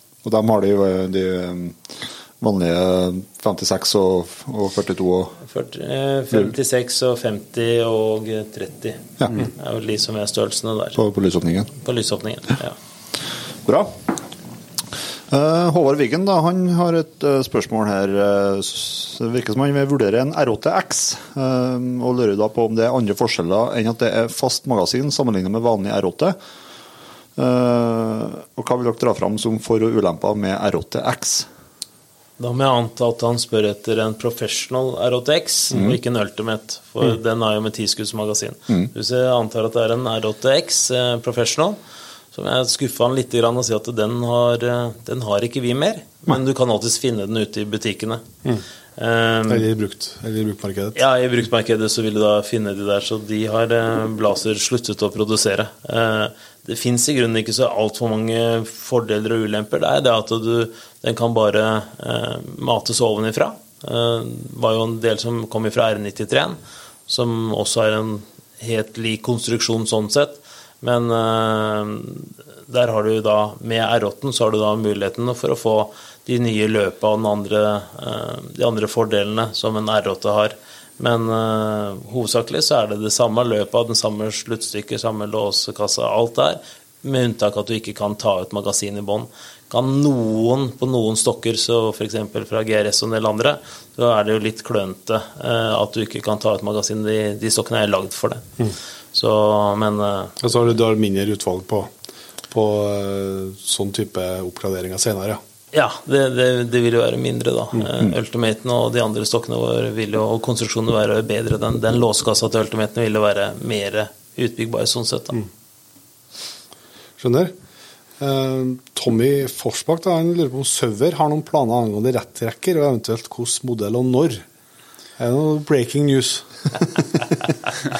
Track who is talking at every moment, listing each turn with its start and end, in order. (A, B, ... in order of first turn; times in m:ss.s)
0:00.2-0:05.4 A
0:05.5-0:11.0 B
0:09.2-0:09.5 A
0:11.0-0:11.7 A
0:11.7-0:12.8 B
0:13.6-0:14.2 A
0:15.3-0:26.4 A
0:27.4-0:31.5 A
0:32.4-0:41.8 B
0:35.7-0:36.0 A
0:42.3-0:48.2 B
0:49.0-0:49.6 B
0:49.5-0:51.0 C
0:50.9-1:38.4 B
1:39.1-1:40.4 B
1:40.4-1:41.9 C
1:42.5-1:45.4 C
1:45.7-1:55.4 B
1:57.2-1:57.5 C
1:58.2-2:04.4 C
2:05.2-2:07.5 C